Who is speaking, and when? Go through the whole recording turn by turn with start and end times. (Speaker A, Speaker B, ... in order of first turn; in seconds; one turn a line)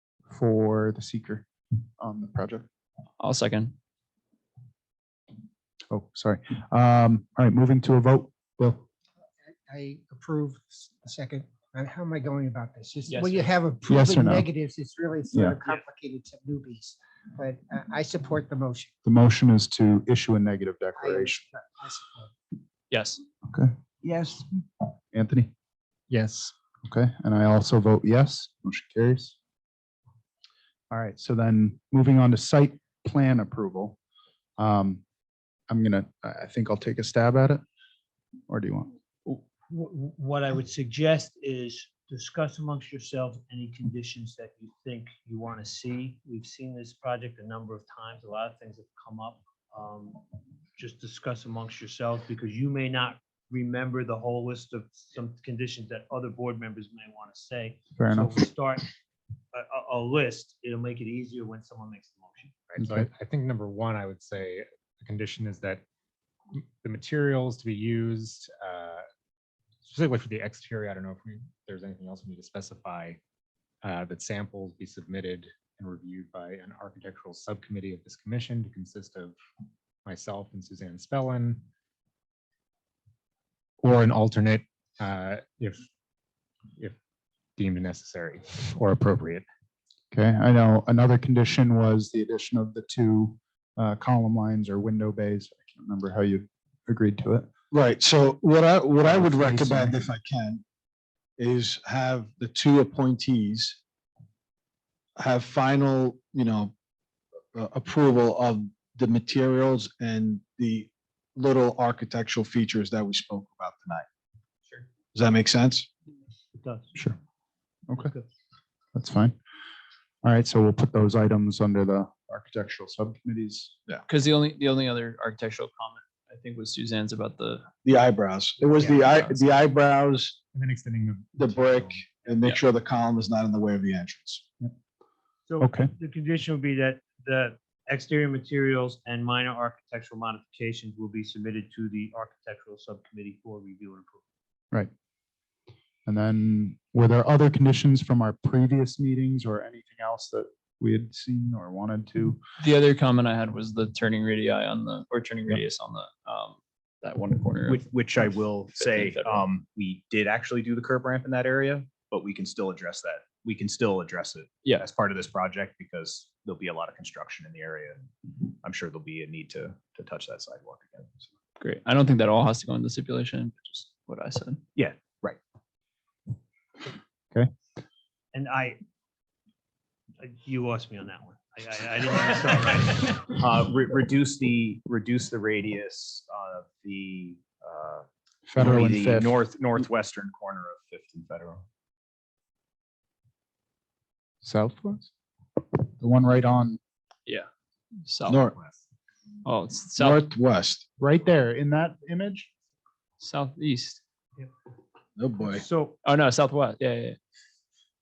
Speaker A: 0.3-1.5
Speaker A: 2.0-2.7
Speaker B: 3.2-3.8
Speaker A: 5.9-8.9
Speaker C: 9.7-18.9
Speaker B: 13.1-13.5
Speaker A: 13.9-14.5
Speaker A: 15.3-15.6
Speaker A: 19.0-21.4
Speaker C: 20.9-22.3
Speaker B: 22.9-23.2
Speaker C: 24.0-24.4
Speaker A: 25.1-25.5
Speaker D: 26.1-26.5
Speaker A: 26.8-29.4
Speaker A: 30.9-34.0
Speaker A: 34.6-35.0
Speaker A: 35.7-37.6
Speaker A: 38.5-38.9
Speaker E: 39.2-50.2
Speaker E: 50.8-58.9
Speaker A: 58.0-58.3
Speaker E: 59.5-62.6
Speaker D: 62.7-65.8
Speaker A: 62.8-63.1
Speaker D: 66.5-69.0
Speaker D: 69.8-73.2
Speaker D: 73.8-79.3
Speaker D: 80.0-81.6
Speaker D: 83.8-85.8
Speaker D: 87.6-89.5
Speaker A: 90.1-97.5
Speaker F: 97.7-100.6
Speaker A: 99.0-99.9
Speaker F: 101.4-103.8
Speaker F: 105.2-106.7
Speaker F: 107.5-114.0
Speaker F: 115.1-115.9
Speaker E: 116.6-116.9
Speaker E: 118.0-118.2
Speaker A: 118.9-119.4
Speaker A: 120.2-123.7
Speaker B: 124.1-127.7
Speaker F: 127.8-130.3
Speaker B: 128.8-129.4
Speaker D: 130.5-132.0
Speaker F: 131.3-134.4
Speaker E: 135.5-144.2
Speaker A: 135.6-135.9
Speaker A: 146.1-152.4
Speaker B: 152.6-159.4
Speaker G: 157.7-168.1
Speaker G: 168.6-171.2
Speaker B: 171.6-174.6
Speaker G: 174.8-175.4
Speaker E: 178.3-178.8
Speaker E: 180.2-183.2
Speaker G: 183.1-191.6
Speaker A: 188.4-189.3
Speaker A: 194.4-195.1
Speaker A: 196.0-196.8
Speaker B: 198.0-198.4
Speaker F: 198.3-198.6
Speaker B: 199.4-200.2
Speaker F: 200.0-200.8
Speaker A: 201.0-202.5
Speaker B: 203.2-204.0
Speaker F: 205.2-205.6
Speaker E: 205.5-206.0
Speaker B: 206.0-207.2